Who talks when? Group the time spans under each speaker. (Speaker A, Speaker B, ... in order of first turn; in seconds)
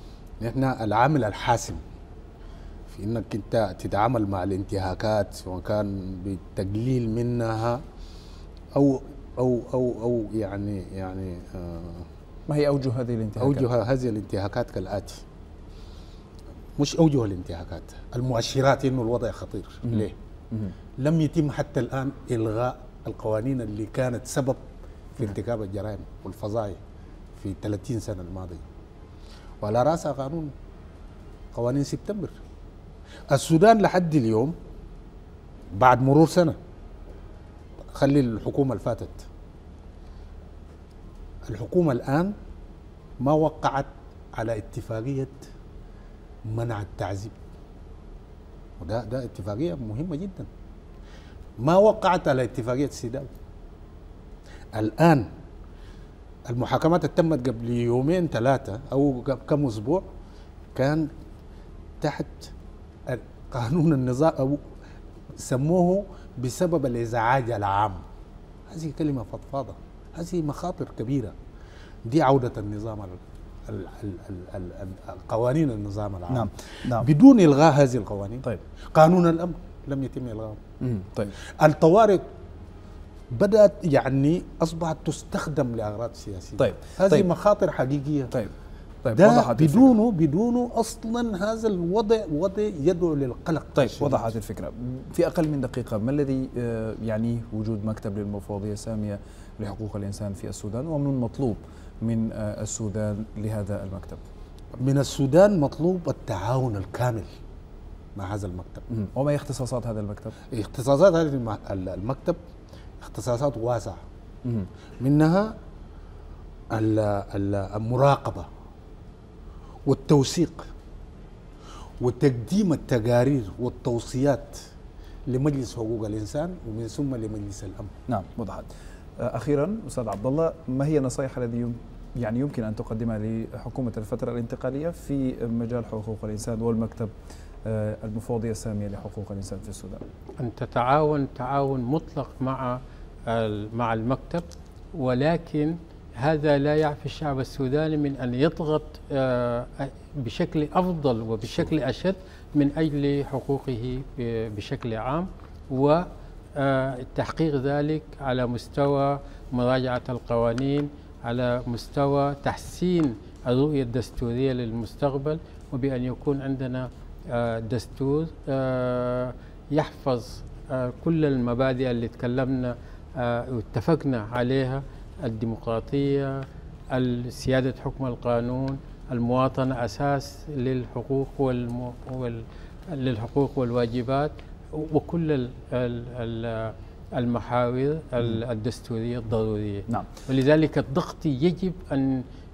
Speaker A: 0.4-1.8, 2.9-7.8, 8.7-12.1, 13.4-15.2, 16.8-20.1, 21.0-24.6, 25.1-26.8, 27.4-28.6, 29.6-30.5, 31.5-32.4, 33.3-34.5, 35.8-36.6, 37.9-39.2, 41.5-42.3, 43.2-45.4, 46.5-47.3, 48.8-50.5, 51.6-53.3, 54.7-55.3, 56.5-60.0, 60.7-61.1, 62.0-62.5, 63.0-64.6, 65.4-68.0, 68.7-71.3, 72.0-80.6, 81.4-82.2, 83.3-88.3, 89.1-94.3, 104.8-107.3, 108.1-108.8, 110.5-112.4, 113.0-114.0, 115.0-115.5, 116.7-118.5, 119.8-120.7, 122.0-124.6, 125.3-127.9
Speaker B: 12.5-13.7, 19.9-20.7, 76.3-77.1, 80.8-81.4, 86.6-87.3, 88.3-89.9, 93.8-104.2, 108.9-110.3, 128.1-137.1, 137.6-140.0
Speaker C: 140.4-192.2